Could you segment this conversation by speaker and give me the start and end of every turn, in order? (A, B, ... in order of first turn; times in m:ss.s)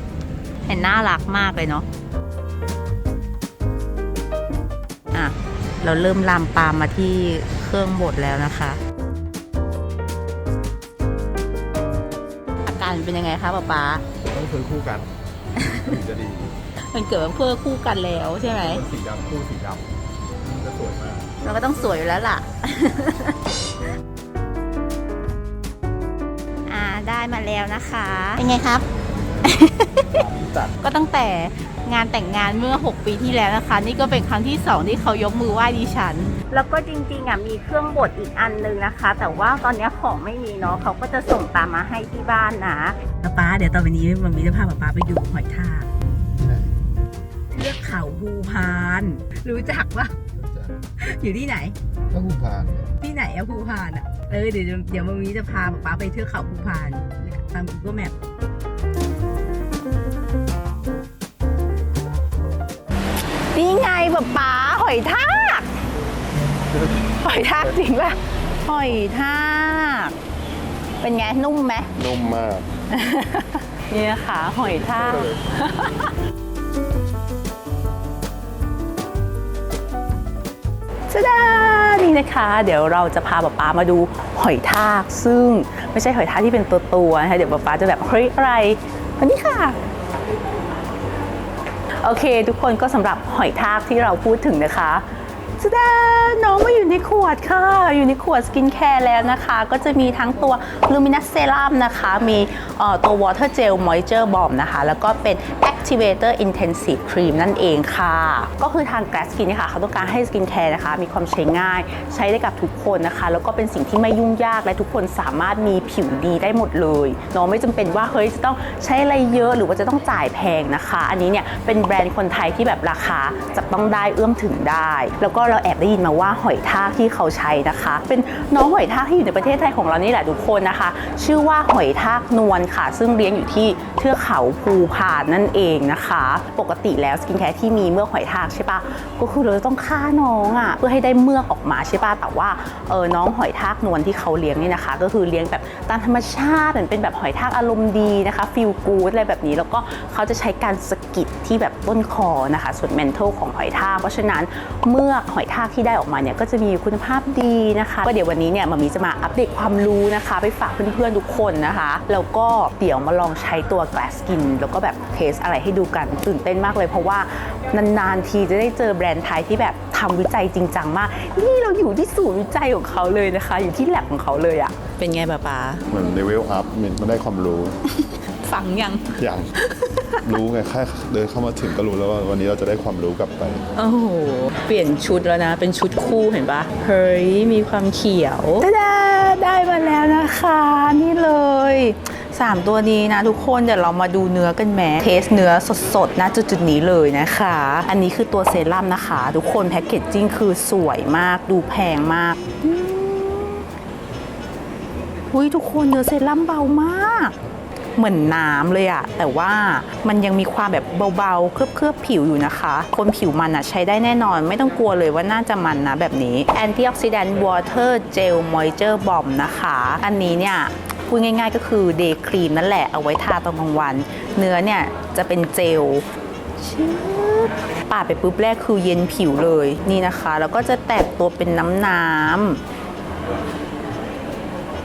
0:00.7-0:01.9 A
0:05.1-0:08.8 A
0:12.6-0:14.0 A
0:14.2-0:15.1 B
0:15.6-0:16.0 A
0:15.6-0:16.6 B
0:16.9-0:18.8 A
0:18.4-0:19.9 B
0:20.4-0:21.3 B
0:21.4-0:23.4 A
0:26.7-0:28.9 A
0:29.4-0:30.2 A
0:30.2-0:30.7 B
0:30.8-0:45.9 A
0:46.3-0:46.7 B
0:47.5-0:50.2 A
0:50.4-0:50.7 B
0:51.0-0:51.8 A
0:52.1-0:52.9 B
0:53.0-0:58.2 A
1:03.5-1:05.7 A
1:07.2-1:10.2 A
1:11.0-1:11.9 A
1:12.0-1:12.7 B
1:12.9-1:16.1 A
1:14.7-1:15.4 B
1:21.1-1:29.8 A
1:32.0-1:35.1 A
1:35.6-2:55.9 A
2:55.9-2:57.7 B
2:58.0-3:00.2 A
2:59.2-2:59.5 B
3:00.2-3:03.6 B
3:03.8-3:23.7 A
3:25.3-3:27.4 A
3:28.0-3:46.0 A
3:46.6-3:52.6 A